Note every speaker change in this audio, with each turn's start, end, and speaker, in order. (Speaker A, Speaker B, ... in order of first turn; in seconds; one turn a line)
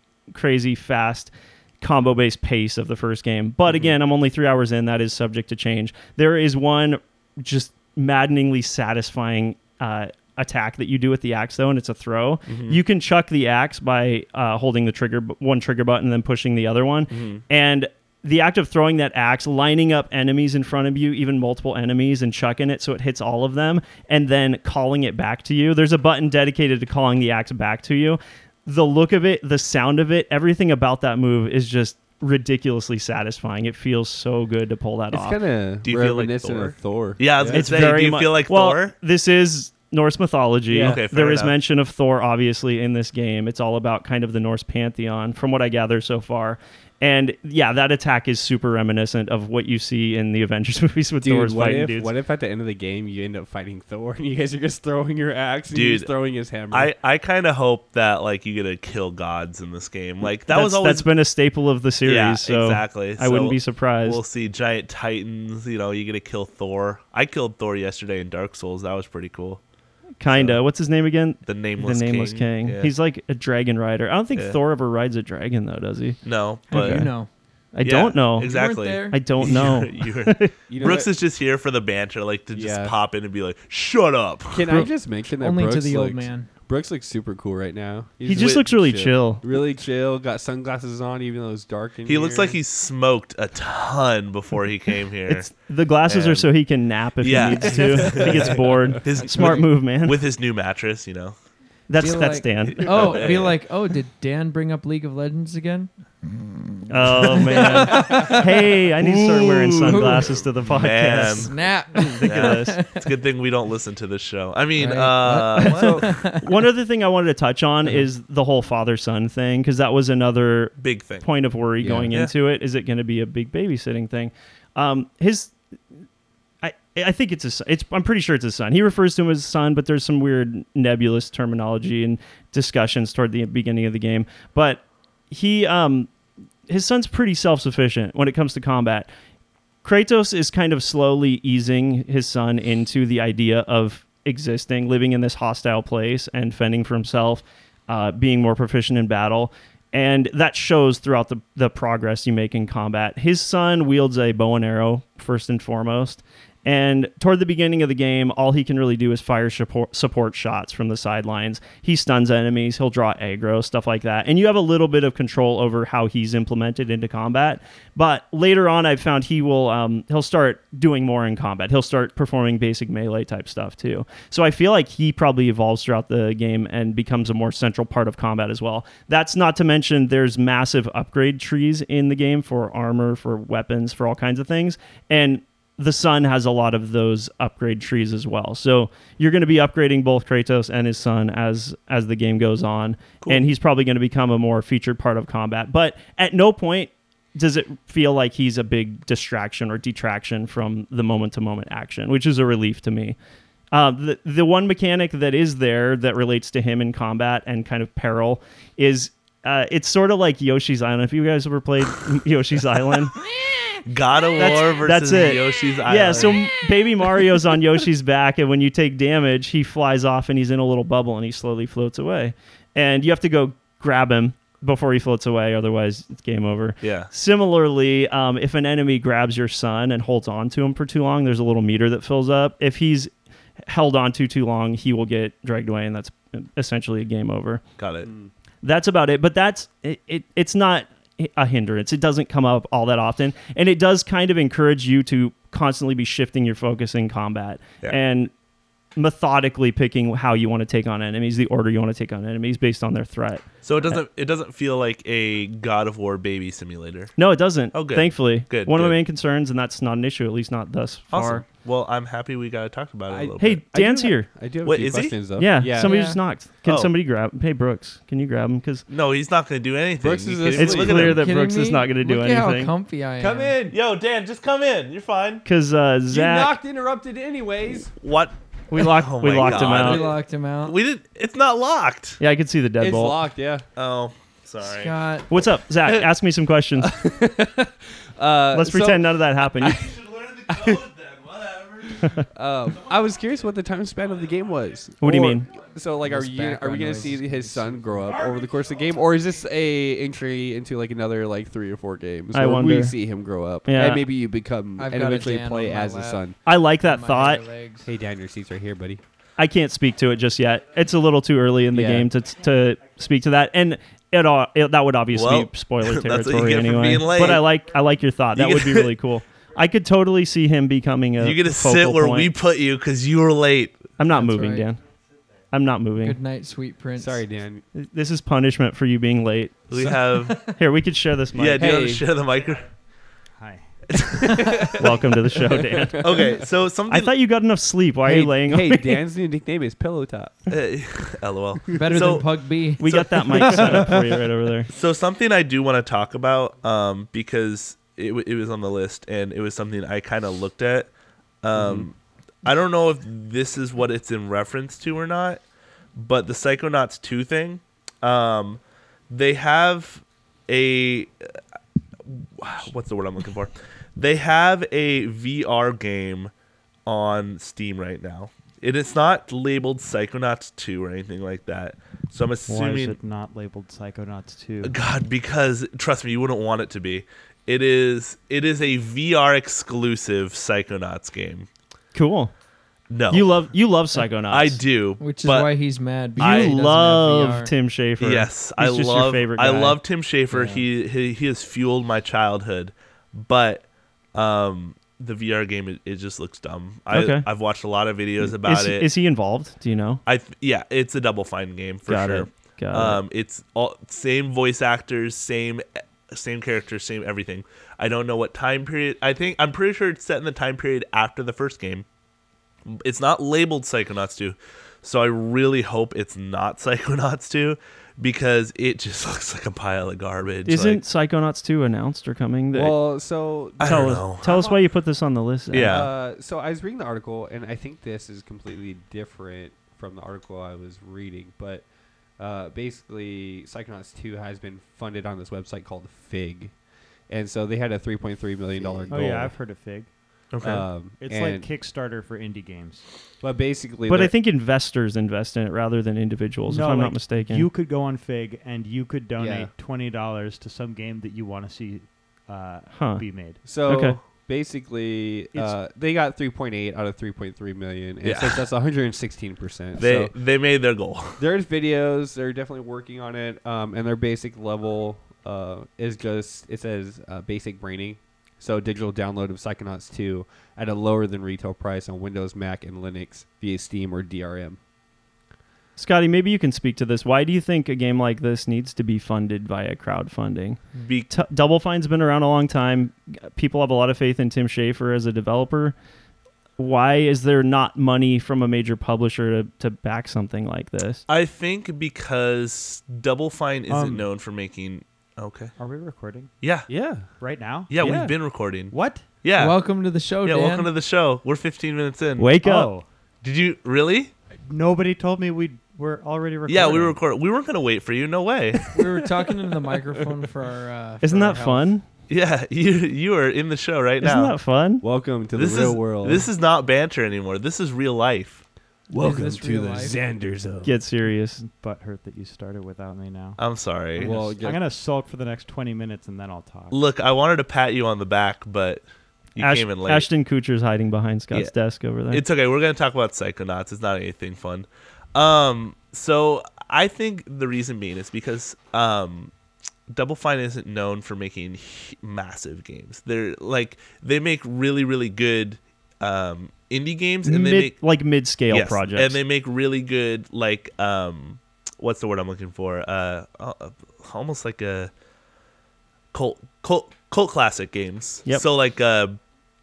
Speaker A: 0.3-35.4
Speaker B: 12.5-12.8
Speaker B: 17.1-17.4
Speaker C: 35.1-37.7
Speaker B: 35.8-38.9
Speaker A: 37.5-52.1
Speaker C: 40.7-41.0
Speaker B: 40.8-41.5
Speaker C: 51.2-56.9
Speaker B: 55.7-56.1
Speaker B: 56.7-61.1
Speaker A: 60.5-64.2
Speaker B: 62.0-69.6
Speaker A: 70.2-76.2
Speaker B: 70.3-70.6
Speaker B: 71.5-72.9
Speaker B: 74.3-74.6
Speaker B: 76.2-77.1
Speaker D: 76.7-77.3
Speaker A: 76.7-77.1
Speaker A: 77.7-78.5
Speaker B: 77.8-84.8
Speaker D: 78.4-79.2
Speaker A: 79.1-80.5
Speaker C: 80.7-81.1
Speaker C: 82.5-83.0
Speaker C: 84.5-92.6
Speaker D: 85.4-86.5
Speaker A: 88.2-89.4
Speaker B: 88.3-88.6
Speaker B: 92.0-95.5
Speaker A: 95.3-100.2
Speaker B: 96.1-96.5
Speaker B: 97.2-101.3
Speaker C: 98.1-98.4
Speaker D: 99.1-99.7
Speaker A: 101.9-103.2
Speaker D: 102.0-105.9
Speaker B: 102.7-103.6
Speaker A: 106.9-112.8
Speaker D: 107.2-108.6
Speaker B: 107.9-108.3
Speaker B: 109.0-111.6
Speaker D: 109.8-110.4
Speaker D: 111.1-113.1
Speaker B: 112.2-116.2
Speaker D: 114.8-116.5
Speaker A: 116.4-125.5
Speaker B: 120.8-121.2
Speaker C: 121.8-122.1
Speaker A: 126.6-136.1
Speaker A: 136.7-139.1
Speaker A: 139.8-203.2
Speaker A: 203.7-213.2
Speaker B: 213.8-216.4
Speaker A: 214.4-233.1
Speaker B: 226.8-227.1
Speaker A: 233.6-237.6
Speaker B: 237.8-238.1
Speaker C: 238.0-238.3
Speaker A: 238.6-248.3
Speaker A: 248.9-254.0
Speaker B: 253.6-257.1
Speaker A: 257.2-261.4
Speaker B: 257.7-259.0
Speaker B: 261.1-263.6
Speaker C: 263.1-265.9
Speaker A: 263.4-264.3
Speaker B: 264.6-265.2
Speaker A: 265.4-268.9
Speaker D: 265.7-266.2
Speaker B: 266.6-266.9
Speaker B: 268.9-271.2
Speaker C: 270.0-271.2
Speaker A: 270.6-272.7
Speaker D: 271.0-273.6
Speaker C: 273.2-273.8
Speaker B: 273.7-275.4
Speaker A: 275.4-276.6
Speaker C: 276.1-277.9
Speaker B: 278.0-282.2
Speaker A: 278.7-280.0
Speaker D: 279.5-280.8
Speaker A: 282.2-283.2
Speaker C: 282.8-283.6
Speaker B: 283.8-285.0
Speaker D: 284.6-285.3
Speaker A: 285.3-287.0
Speaker C: 286.8-289.1
Speaker A: 288.5-289.8
Speaker B: 289.6-292.1
Speaker C: 290.5-290.8
Speaker C: 292.2-306.4
Speaker A: 295.0-295.5
Speaker D: 296.0-298.1
Speaker A: 302.3-303.0
Speaker A: 303.6-304.0
Speaker D: 304.8-307.9
Speaker A: 306.4-307.4
Speaker C: 307.8-309.0
Speaker A: 309.4-322.3
Speaker C: 311.7-312.1
Speaker B: 315.1-317.5
Speaker B: 318.4-318.9
Speaker B: 321.2-323.9
Speaker A: 324.0-324.8
Speaker D: 324.1-324.7
Speaker A: 325.5-326.2
Speaker D: 326.0-327.2
Speaker C: 327.0-327.6
Speaker A: 327.7-329.5
Speaker B: 329.7-330.4
Speaker A: 330.4-331.7
Speaker B: 331.3-332.7
Speaker C: 331.6-332.1
Speaker E: 333.4-333.7
Speaker B: 333.9-334.7
Speaker D: 334.2-334.6
Speaker C: 334.6-336.3
Speaker A: 334.7-336.2
Speaker B: 336.0-337.1
Speaker A: 336.9-339.0
Speaker C: 338.1-340.5
Speaker B: 340.5-344.0
Speaker D: 341.7-343.5
Speaker A: 342.8-344.7
Speaker B: 344.7-350.9
Speaker B: 351.4-355.4
Speaker C: 351.5-351.9
Speaker B: 355.9-361.1
Speaker B: 362.1-366.3
Speaker B: 366.9-373.0
Speaker E: 372.5-374.7
Speaker B: 374.6-381.5
Speaker A: 381.9-382.3
Speaker B: 382.9-383.4
Speaker A: 383.1-384.6
Speaker B: 384.3-385.5
Speaker D: 385.0-387.5
Speaker A: 386.1-389.8
Speaker B: 386.2-386.6
Speaker B: 388.0-398.9
Speaker A: 396.9-397.2
Speaker A: 398.2-400.0
Speaker B: 400.1-411.9
Speaker A: 401.9-403.0
Speaker B: 412.6-420.8
Speaker A: 420.4-422.8
Speaker C: 422.5-424.6
Speaker B: 423.6-424.3
Speaker A: 423.6-425.8
Speaker B: 425.5-425.9
Speaker C: 425.6-431.6
Speaker C: 432.2-436.5
Speaker C: 437.1-439.3
Speaker E: 438.9-439.9
Speaker B: 440.3-440.6
Speaker C: 440.4-441.5
Speaker E: 441.0-442.9
Speaker C: 443.2-444.1
Speaker A: 443.9-447.5
Speaker E: 446.4-453.4
Speaker C: 449.2-449.5
Speaker A: 452.7-453.0
Speaker C: 453.4-460.1
Speaker A: 453.6-454.0
Speaker B: 458.0-458.4
Speaker B: 459.8-461.2
Speaker C: 461.2-474.6
Speaker A: 475.8-485.7
Speaker B: 480.8-481.1
Speaker A: 486.6-491.0
Speaker B: 491.1-495.5
Speaker E: 493.7-494.0
Speaker E: 495.6-496.3
Speaker B: 496.4-496.7
Speaker C: 496.7-497.1
Speaker E: 497.2-498.1
Speaker B: 497.7-499.6
Speaker E: 498.7-499.1
Speaker D: 499.3-500.7
Speaker B: 500.2-502.3
Speaker A: 502.2-502.7
Speaker E: 502.4-502.8
Speaker B: 503.2-504.1
Speaker E: 504.5-507.0
Speaker B: 506.5-508.8
Speaker D: 508.7-511.7
Speaker A: 511.0-511.8
Speaker B: 512.1-514.3
Speaker A: 514.0-514.8
Speaker C: 514.8-516.3
Speaker B: 515.3-518.4
Speaker C: 518.9-520.7
Speaker D: 518.9-520.0
Speaker A: 520.6-521.4
Speaker E: 521.4-523.4
Speaker B: 523.4-524.2
Speaker E: 524.0-526.7
Speaker C: 524.0-524.6
Speaker B: 526.7-528.8
Speaker B: 529.4-530.1
Speaker A: 529.4-532.2
Speaker B: 532.1-539.3
Speaker B: 539.9-547.8
Speaker A: 547.2-549.2
Speaker B: 548.5-554.9
Speaker B: 556.1-559.2